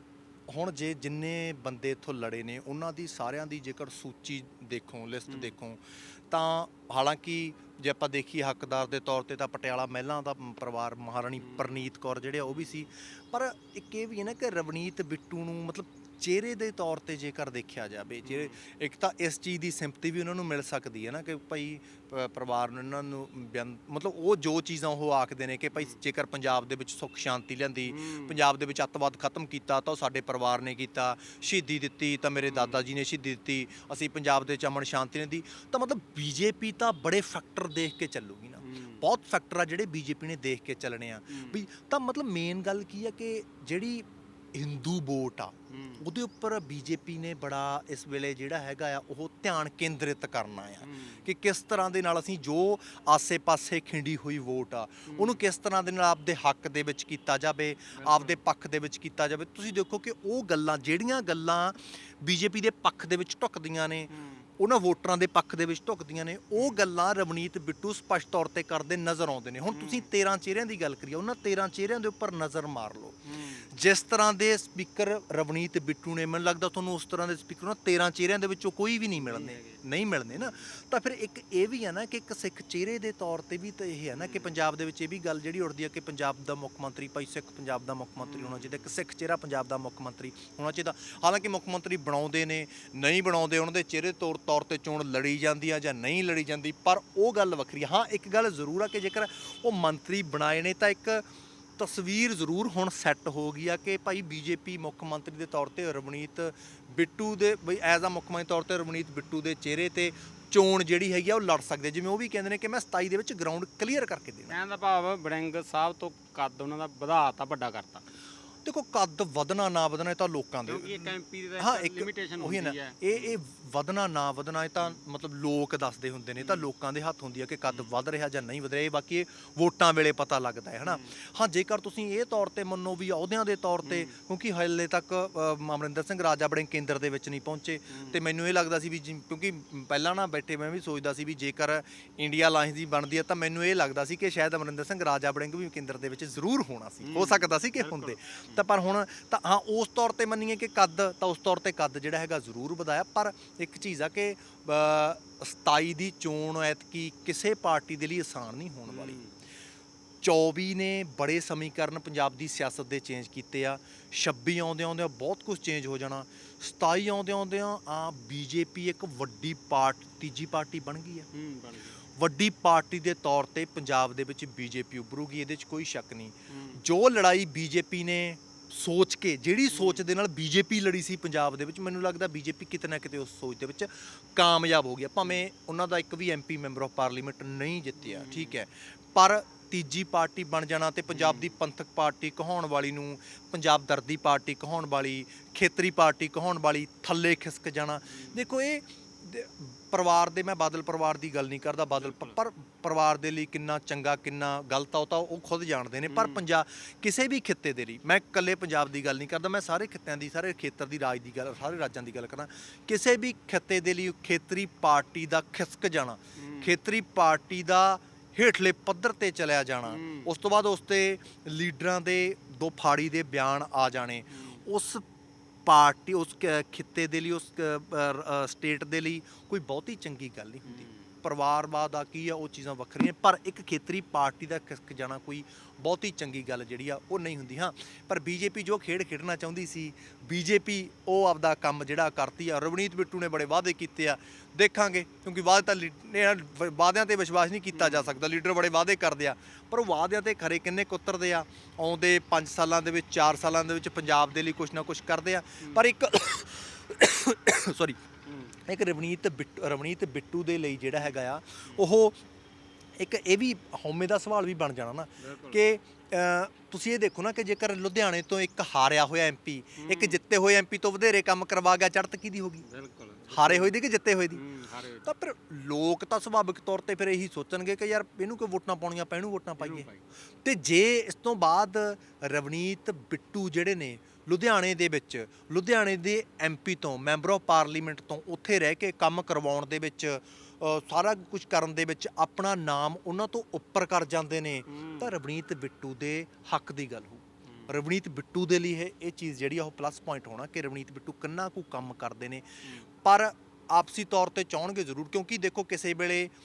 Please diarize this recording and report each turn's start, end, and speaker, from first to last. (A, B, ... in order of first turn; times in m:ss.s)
0:00.5-1:41.2 A
0:05.3-0:05.5 B
0:11.4-0:11.8 B
0:18.2-0:18.6 B
0:27.8-0:28.4 B
0:32.4-0:32.8 B
0:38.6-0:39.0 B
0:41.3-0:41.6 B
0:45.7-0:46.0 B
0:50.8-0:51.2 B
0:55.1-0:55.4 B
0:58.0-0:58.4 B
1:04.1-1:04.4 B
1:09.7-1:10.1 B
1:13.2-1:13.7 B
1:19.1-1:19.8 B
1:20.3-1:20.6 B
1:24.1-1:24.6 B
1:28.2-1:28.8 B
1:41.8-1:54.5 A
1:54.5-1:58.0 B
1:58.6-2:39.2 A
2:00.6-2:03.3 B
2:06.4-2:06.7 B
2:07.7-2:07.9 B
2:10.8-2:11.1 B
2:13.8-2:14.1 B
2:17.9-2:18.2 B
2:27.0-2:28.6 B
2:38.9-2:39.3 B
2:40.2-2:51.3 A
2:51.3-2:52.0 B
2:52.1-3:45.0 A
2:56.5-2:56.8 B
2:59.7-3:00.0 B
3:08.0-3:08.6 B
3:11.1-3:11.6 B
3:18.1-3:18.4 B
3:22.0-3:22.4 B
3:26.0-3:26.4 B
3:36.4-3:36.7 B
3:39.8-3:40.3 B
3:44.3-3:44.6 B
3:45.6-4:18.0 A
3:50.7-3:51.2 B
4:07.7-4:08.2 B
4:18.2-4:18.5 B
4:18.6-4:22.2 A
4:23.0-4:32.6 A
4:25.2-4:25.6 B
4:29.8-4:30.2 B
4:32.6-4:33.7 B
4:33.3-4:34.4 A
4:34.3-4:35.1 B
4:35.0-4:39.9 A
4:39.6-4:40.0 B
4:40.4-5:02.4 A
4:54.7-4:55.1 B
5:03.0-5:06.3 A